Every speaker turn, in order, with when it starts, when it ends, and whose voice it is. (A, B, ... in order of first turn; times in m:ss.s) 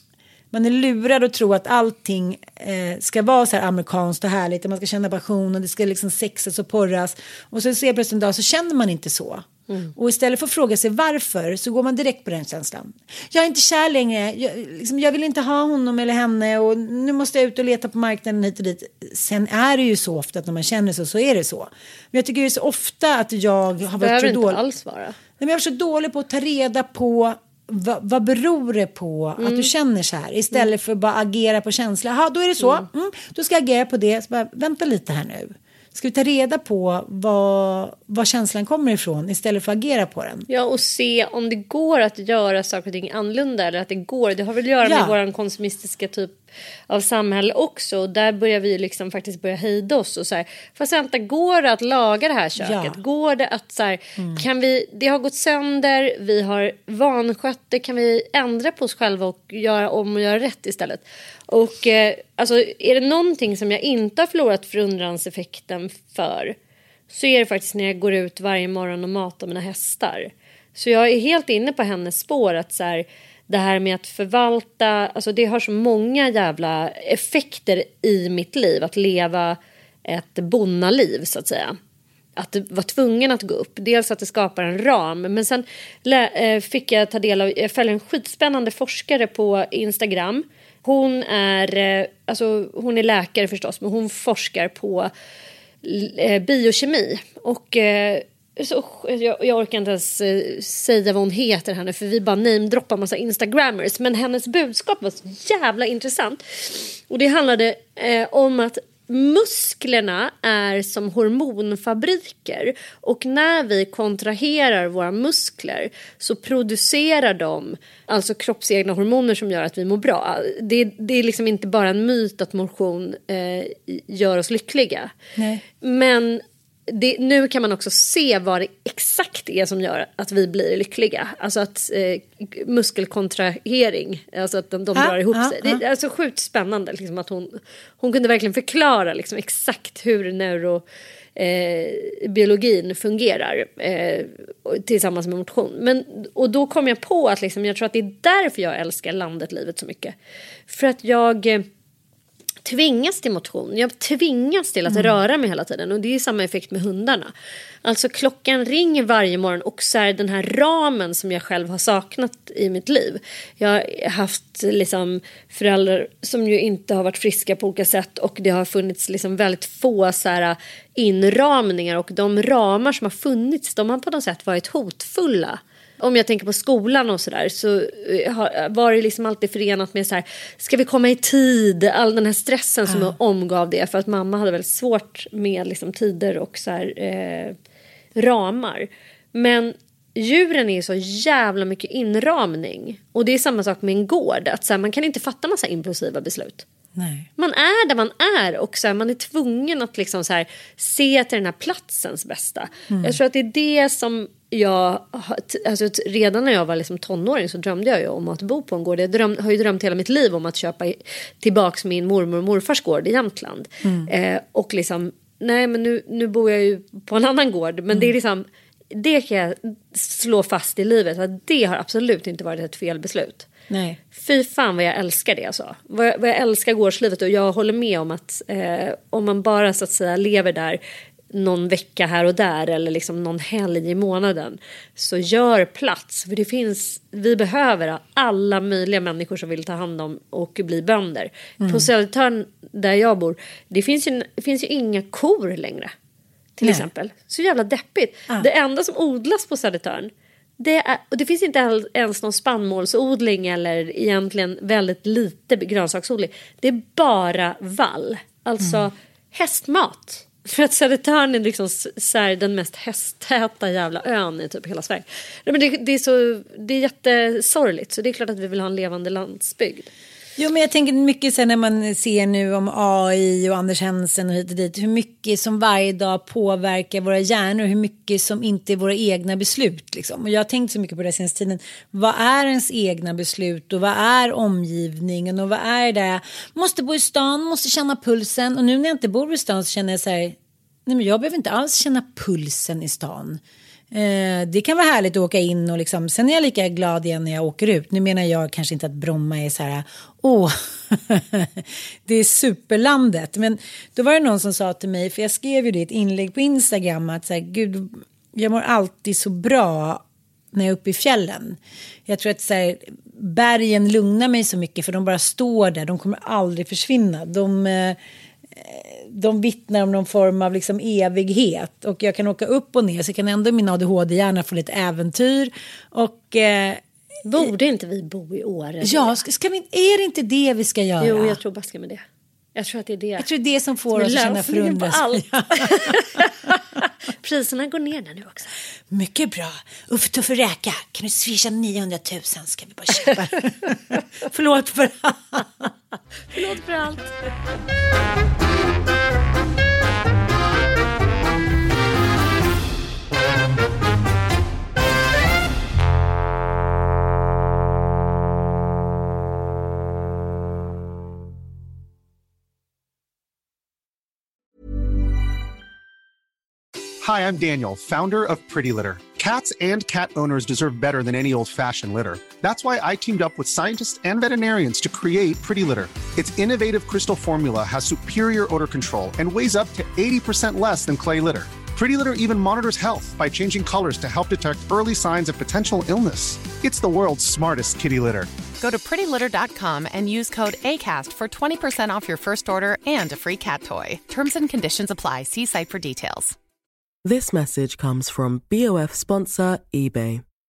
0:00.5-0:24.6 A
0:24.0-0:25.2 B
0:25.4-0:40.5 A
0:29.4-0:29.7 B
0:32.6-0:32.9 B
0:40.5-0:46.4 B
0:44.8-0:45.2 A
0:46.9-1:06.6 B
0:52.6-0:53.0 A
0:54.2-0:54.4 A
1:07.1-1:21.8 B
1:22.4-1:35.1 B
1:35.8-2:05.1 B
2:05.4-2:05.6 A
2:05.8-2:30.2 B
2:15.0-2:15.8 A
2:30.7-2:31.7 B
2:32.6-2:37.3 B
2:34.9-2:35.1 A
2:37.8-3:07.6 B
3:02.9-3:03.2 A
3:08.2-3:16.6 B
3:17.0-3:17.3 A
3:17.4-3:43.5 B
3:22.9-3:23.2 A
3:33.8-3:34.1 A
3:43.7-3:44.0 A
3:44.1-3:50.8 B
3:51.3-4:05.9 B
4:01.6-4:01.9 A
4:06.6-4:29.9 B
4:30.4-4:53.4 A
4:53.9-5:18.0 A
5:18.5-5:26.8 A
5:27.2-5:29.2 B
5:28.8-5:31.4 A
5:31.0-5:32.0 B
5:32.6-5:33.3 B
5:33.2-5:36.0 A
5:33.9-5:38.5 B
5:38.9-5:45.7 A
5:46.3-5:47.2 B
6:07.0-6:28.3 C
6:28.6-6:36.4 D
6:37.0-6:40.2 E